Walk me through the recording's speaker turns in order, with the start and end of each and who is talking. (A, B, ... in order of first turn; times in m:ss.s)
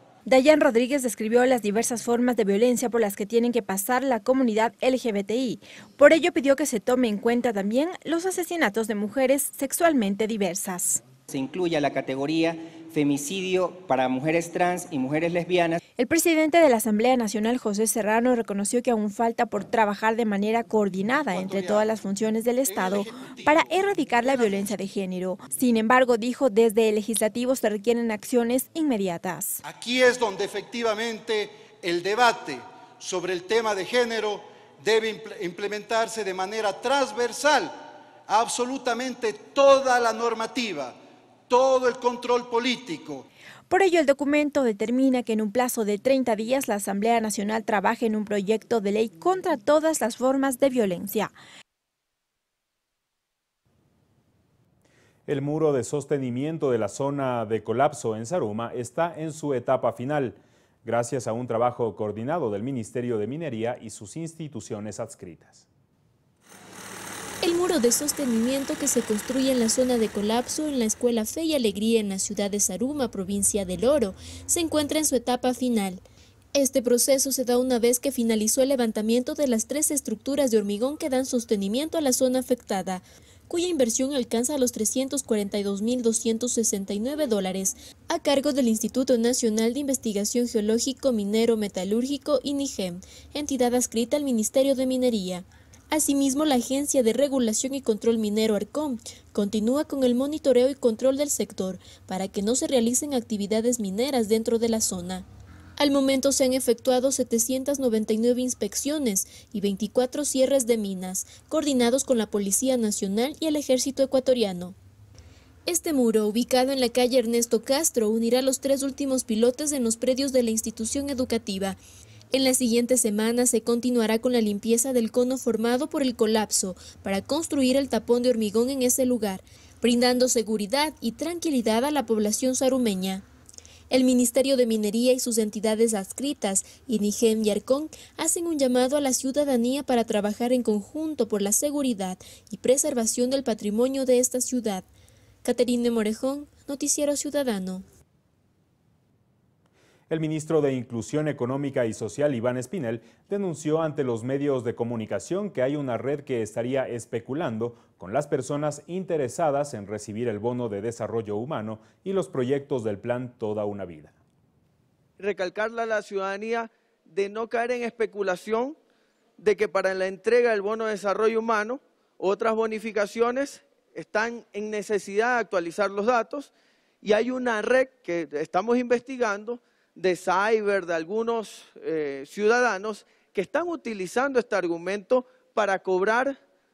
0:00.2-0:11.0 A
0:11.3-0:15.8 B
0:16.0-0:29.6 A
0:21.3-0:21.9 C
0:22.6-0:23.7 C
0:24.2-0:24.6 C
0:29.6-0:43.3 C
0:43.7-0:51.3 A
0:55.3-1:05.6 D
1:07.4-1:16.0 E
1:16.5-1:45.2 E
1:45.8-1:54.8 E
1:55.7-2:01.8 E
2:02.3-2:13.2 E
2:13.9-2:24.9 E
2:25.4-2:27.8 E
2:30.1-2:44.2 D
2:45.2-2:48.8 F
2:49.4-2:56.5 F
2:57.0-3:06.4 F